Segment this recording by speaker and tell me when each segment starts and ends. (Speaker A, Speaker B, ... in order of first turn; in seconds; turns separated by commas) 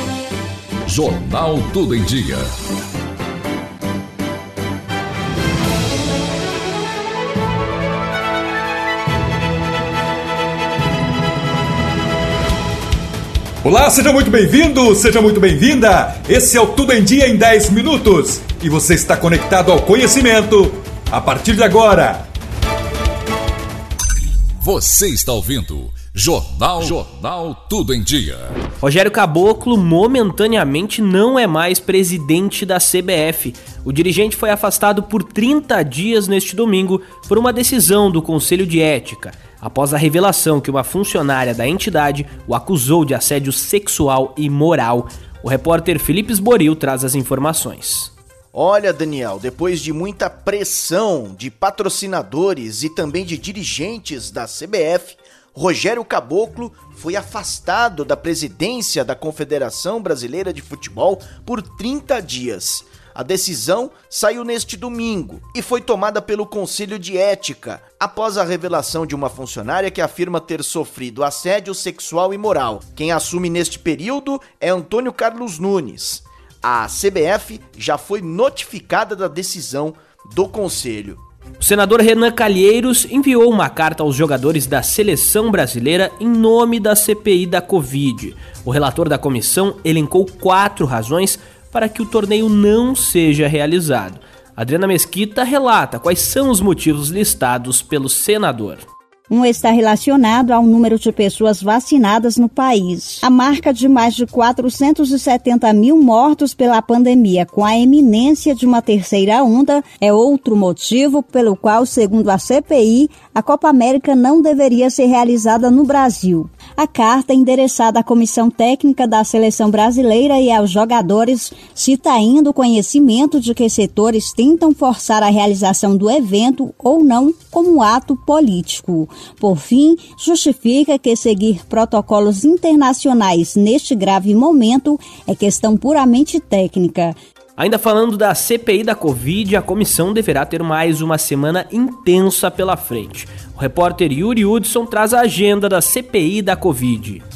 Speaker A: 0.9-2.5, Speaker B: 13.6-22.2, Speaker A: 24.6-28.5, Speaker C: 28.8-48.1, Speaker D: 48.5-81.2, Speaker C: 81.6-98.8, Speaker E: 99.3-137.1, Speaker C: 137.6-147.2